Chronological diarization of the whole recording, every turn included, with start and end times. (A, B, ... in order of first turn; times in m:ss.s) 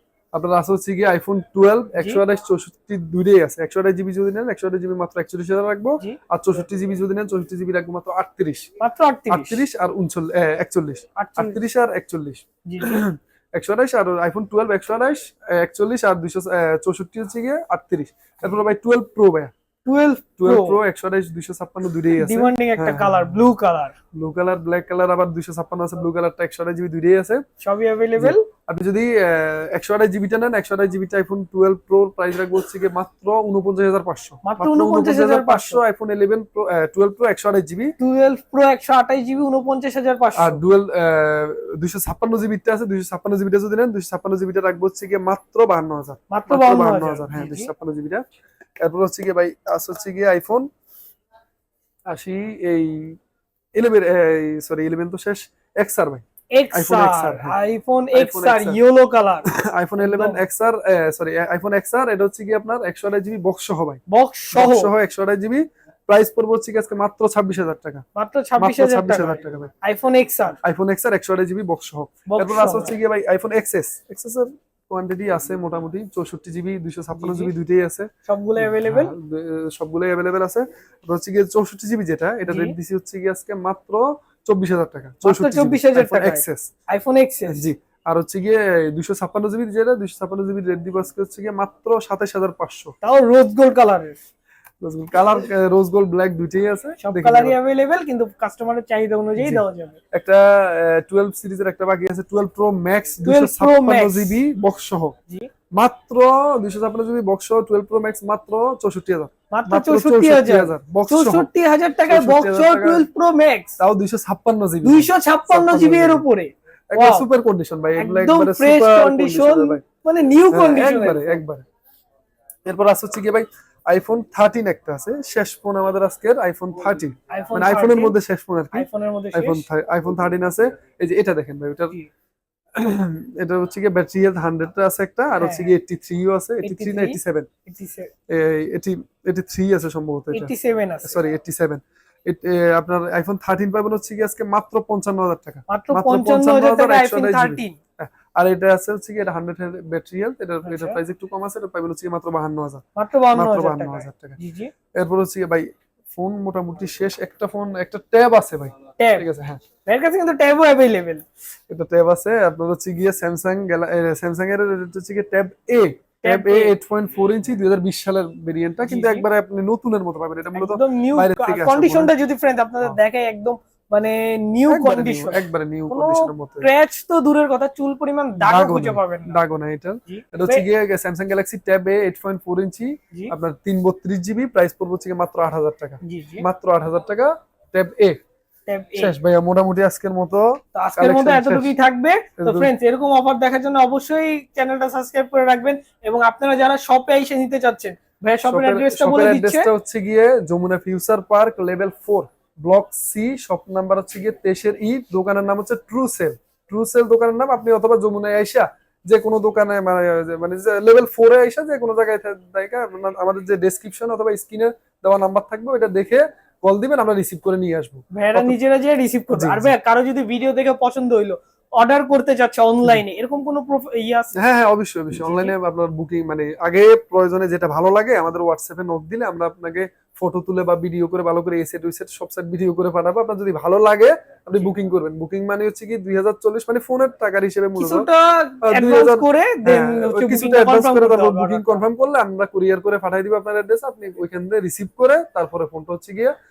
0:00.3-0:08.6 A
0:02.0-0:02.2 B
0:08.8-0:09.6 B
0:09.3-0:19.5 A
0:11.2-0:11.6 B
0:12.6-0:13.0 B
0:19.8-0:20.8 B
0:20.4-0:23.4 A
0:22.1-0:23.9 B
0:24.1-0:27.4 A
0:27.6-0:28.5 B
0:28.2-0:37.9 A
0:34.4-0:35.8 B
0:38.0-0:40.6 B
0:40.4-0:48.2 A
0:46.3-0:47.7 B
0:48.8-0:50.7 A
0:52.1-0:53.2 A
0:53.8-0:57.6 A
0:56.5-1:00.4 B
0:58.1-0:58.8 A
0:59.5-1:08.0 A
1:04.1-1:04.9 B
1:08.2-1:10.6 B
1:08.6-1:09.7 A
1:10.6-1:26.7 A
1:12.3-1:12.9 B
1:17.1-1:17.5 B
1:18.3-1:19.1 B
1:22.5-1:22.7 B
1:25.2-1:27.6 B
1:27.5-1:32.9 A
1:33.0-1:34.2 B
1:34.8-1:37.6 A
1:37.0-1:40.0 B
1:39.4-1:45.1 A
1:43.2-1:44.3 B
1:45.7-1:51.5 A
1:49.5-1:53.8 B
1:52.0-1:53.1 A
1:53.8-1:56.2 A
1:54.8-1:57.2 B
1:56.9-1:59.8 A
1:58.0-2:01.4 B
2:00.5-2:01.6 A
2:02.6-2:12.0 A
2:07.3-2:08.1 B
2:08.7-2:09.6 B
2:12.8-2:17.5 A
2:15.4-2:15.7 B
2:16.6-2:18.1 B
2:18.3-2:20.5 A
2:20.3-2:21.2 B
2:21.0-2:34.4 A
2:25.7-2:27.8 B
2:30.6-2:31.0 B
2:33.0-2:34.7 B
2:34.9-2:39.6 A
2:39.0-2:39.3 B
2:39.8-2:41.2 B
2:41.7-2:52.1 A
2:46.2-2:46.7 B
2:48.8-2:49.2 B
2:50.5-2:59.4 B
2:54.7-2:56.7 A
2:58.4-3:08.2 A
3:00.1-3:00.7 B
3:06.0-3:06.4 B
3:08.7-3:09.1 B
3:09.0-3:11.7 A
3:10.7-3:19.7 B
3:12.4-3:12.7 A
3:18.4-3:38.6 A
3:38.1-3:44.3 B
3:39.3-3:39.7 A
3:44.3-3:58.1 A
3:45.1-3:45.5 B
3:57.8-4:01.8 B
3:58.6-4:06.3 A